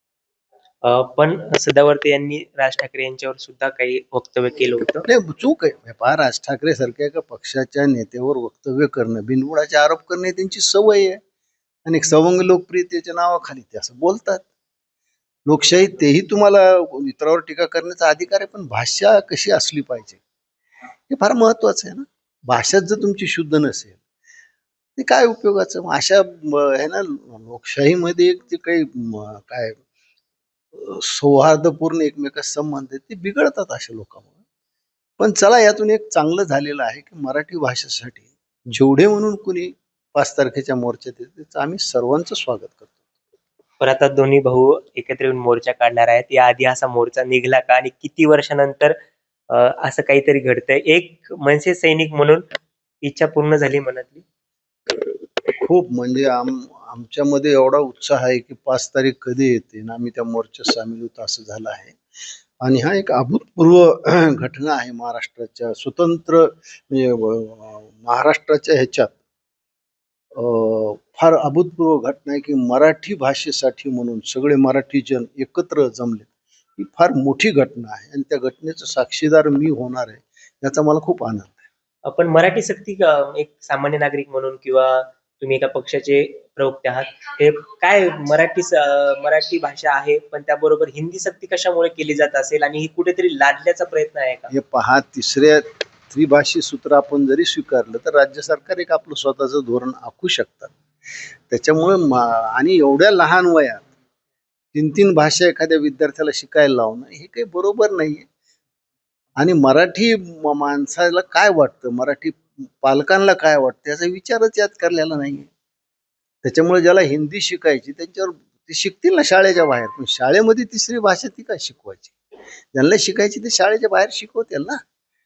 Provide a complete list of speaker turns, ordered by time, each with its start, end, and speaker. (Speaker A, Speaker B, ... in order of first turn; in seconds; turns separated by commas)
Speaker A: 0.8-5.1, Speaker B: 5.0-11.2, Speaker B: 11.8-14.4, Speaker B: 15.5-20.2, Speaker B: 21.1-24.0, Speaker B: 25.0-29.8, Speaker B: 30.7-34.3, Speaker B: 35.2-43.0, Speaker A: 43.8-48.9, Speaker A: 49.5-52.4, Speaker A: 53.0-54.2, Speaker B: 55.6-62.0, Speaker B: 62.6-69.2, Speaker B: 70.3-81.7, Speaker A: 82.0-94.5, Speaker B: 94.5-100.7, Speaker B: 101.5-103.8, Speaker B: 104.7-108.3, Speaker B: 109.4-115.5, Speaker B: 116.4-122.1, Speaker B: 122.7-124.8